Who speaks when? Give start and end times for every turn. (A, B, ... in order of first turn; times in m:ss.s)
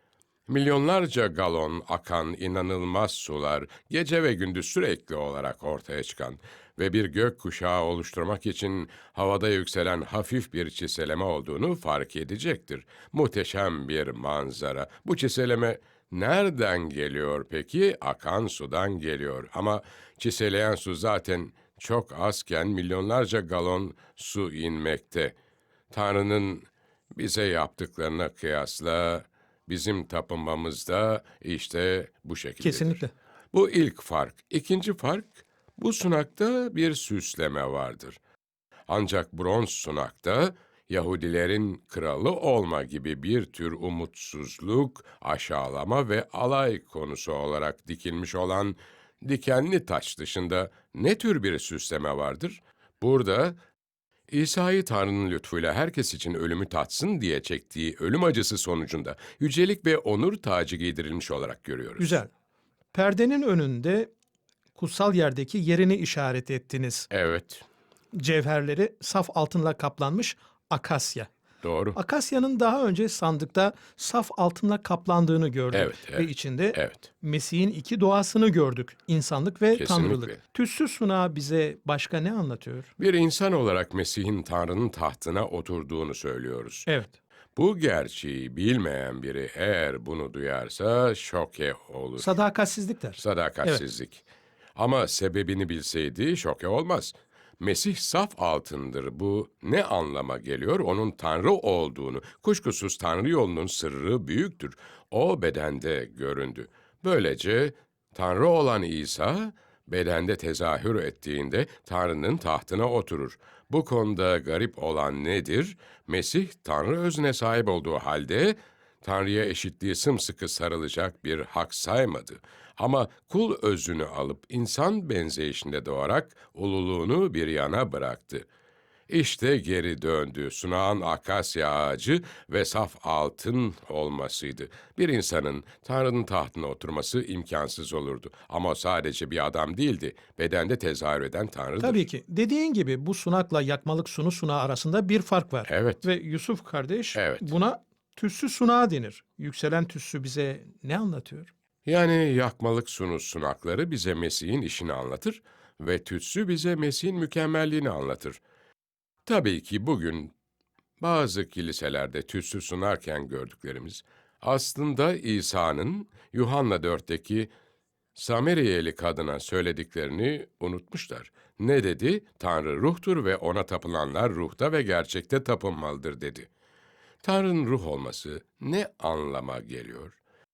0:00.5-0:25.4 A
0:25.9-0:33.0 A
0:32.6-0:33.1 B
0:33.5-0:38.2 A
0:38.9-0:53.6 A
0:54.3-1:02.2 A
1:02.0-1:02.3 B
1:02.9-1:04.1 B
1:04.8-1:07.1 B
1:07.1-1:07.7 A
1:08.1-1:11.3 B
1:11.6-1:12.0 A
1:12.0-1:22.9 B
1:15.7-1:17.1 A
1:19.7-1:20.4 A
1:23.0-1:26.9 A
1:26.9-1:27.2 B
1:27.6-1:32.4 A
1:32.2-1:33.8 B
1:33.2-1:34.2 A
1:34.8-2:08.5 A
2:09.1-2:22.1 A
2:21.8-2:31.5 B
2:25.7-2:26.0 A
2:27.2-2:27.5 A
2:31.9-2:38.4 A
2:39.3-2:40.3 A
2:41.0-2:47.5 A
2:48.2-2:56.5 A
2:57.2-3:00.2 A